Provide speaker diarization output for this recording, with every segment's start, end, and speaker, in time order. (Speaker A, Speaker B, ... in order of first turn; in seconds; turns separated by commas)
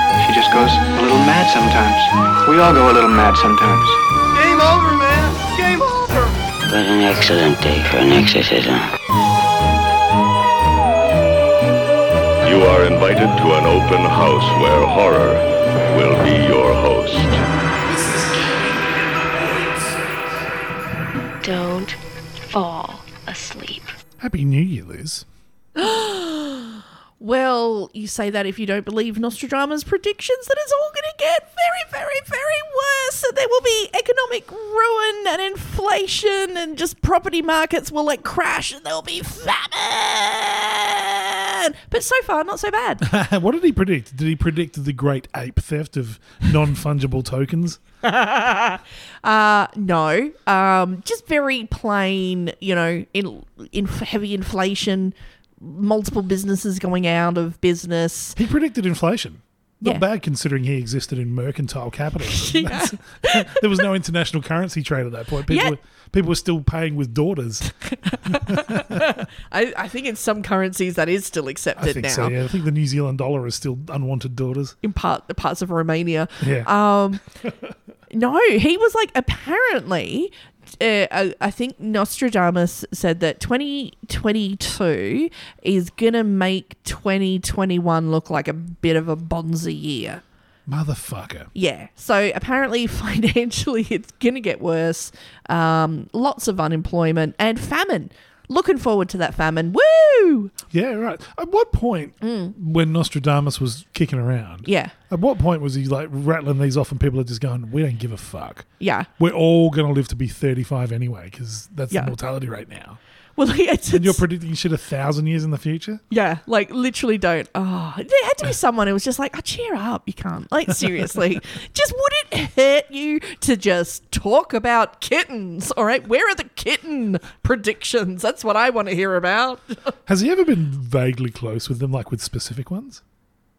Speaker A: 0.2-4.0, Speaker B: 4.3-6.3, Speaker C: 6.7-8.9, Speaker D: 12.4-17.4, Speaker E: 17.9-20.3, Speaker F: 21.4-22.0, Speaker F: 22.5-24.0, Speaker E: 24.2-25.2, Speaker G: 25.8-43.0, Speaker E: 43.0-47.8, Speaker G: 48.0-58.4, Speaker E: 58.4-67.7, Speaker G: 62.2-63.8, Speaker G: 65.5-65.7, Speaker G: 67.7-72.4, Speaker E: 68.2-69.1, Speaker E: 71.8-74.8, Speaker G: 74.8-77.2, Speaker E: 76.4-76.7, Speaker G: 78.1-90.2, Speaker E: 90.7-91.5, Speaker G: 91.5-100.5, Speaker E: 100.7-113.0, Speaker G: 102.2-102.5, Speaker G: 104.6-104.9, Speaker G: 108.8-109.1, Speaker G: 113.4-114.2, Speaker E: 113.9-116.0, Speaker G: 116.1-129.9, Speaker E: 130.1-133.0